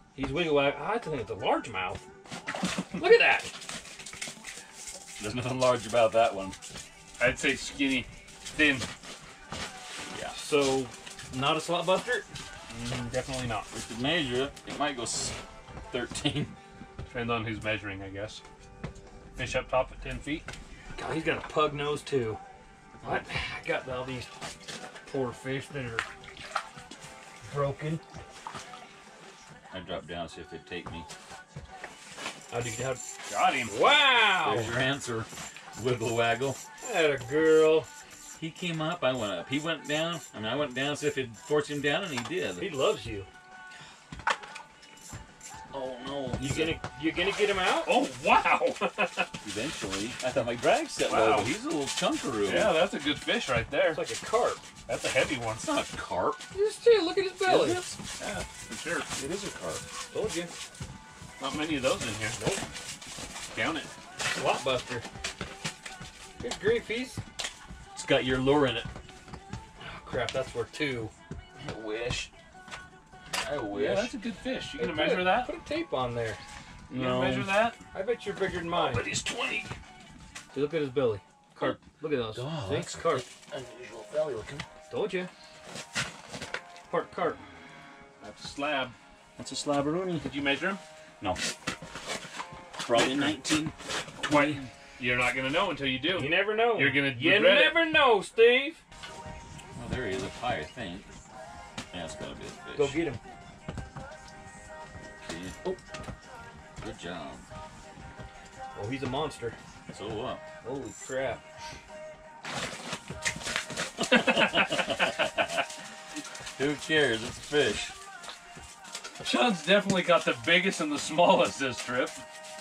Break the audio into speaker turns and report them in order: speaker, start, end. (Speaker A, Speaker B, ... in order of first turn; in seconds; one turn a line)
Speaker A: 0.1-2.0
Speaker A: 2.9-3.5
Speaker B: 5.2-6.5
Speaker C: 7.2-8.8
Speaker B: 10.1-10.3
Speaker A: 10.3-12.3
Speaker C: 12.7-13.7
Speaker B: 13.7-15.3
Speaker B: 15.9-16.6
Speaker C: 17.1-18.4
Speaker C: 19.4-20.4
Speaker A: 20.9-22.4
Speaker B: 23.0-23.2
Speaker A: 23.0-24.3
Speaker A: 25.0-26.1
Speaker A: 27.4-28.0
Speaker B: 29.7-31.1
Speaker A: 32.5-33.0
Speaker C: 33.3-33.7
Speaker A: 33.7-34.8
Speaker B: 34.4-36.6
Speaker A: 36.8-37.9
Speaker B: 38.4-42.7
Speaker A: 42.6-43.3
Speaker B: 45.7-46.8
Speaker A: 46.4-47.9
Speaker C: 47.8-49.3
Speaker B: 49.4-52.8
Speaker C: 51.0-51.5
Speaker C: 52.4-54.0
Speaker A: 53.9-54.6
Speaker C: 54.9-55.6
Speaker B: 55.5-56.4
Speaker A: 56.5-57.8
Speaker B: 57.4-58.0
Speaker C: 58.2-59.1
Speaker B: 59.1-59.8
Speaker A: 60.1-60.5
Speaker C: 61.4-62.4
Speaker A: 62.4-62.6
Speaker C: 63.5-63.9
Speaker A: 64.2-65.0
Speaker A: 66.4-67.2
Speaker B: 67.9-68.9
Speaker A: 69.8-71.1
Speaker B: 71.6-72.3
Speaker B: 73.3-74.1
Speaker C: 73.7-75.5
Speaker A: 74.8-76.4
Speaker B: 76.9-77.7
Speaker C: 76.9-77.8
Speaker A: 77.9-79.1
Speaker B: 78.7-79.7
Speaker A: 80.5-83.2
Speaker B: 82.3-84.7
Speaker A: 84.9-85.3
Speaker A: 86.9-87.4
Speaker C: 88.2-89.0
Speaker B: 89.4-90.3
Speaker C: 90.2-90.8
Speaker B: 92.8-94.7
Speaker C: 92.9-93.4
Speaker C: 94.2-97.8
Speaker A: 96.1-98.8
Speaker B: 99.7-101.1
Speaker B: 101.9-103.0
Speaker A: 102.7-103.2
Speaker B: 105.2-105.7
Speaker B: 106.8-107.5
Speaker A: 108.7-109.6
Speaker B: 109.9-110.4
Speaker A: 110.6-111.4
Speaker B: 114.0-115.6
Speaker C: 114.1-114.9
Speaker B: 116.6-117.9
Speaker C: 119.2-122.2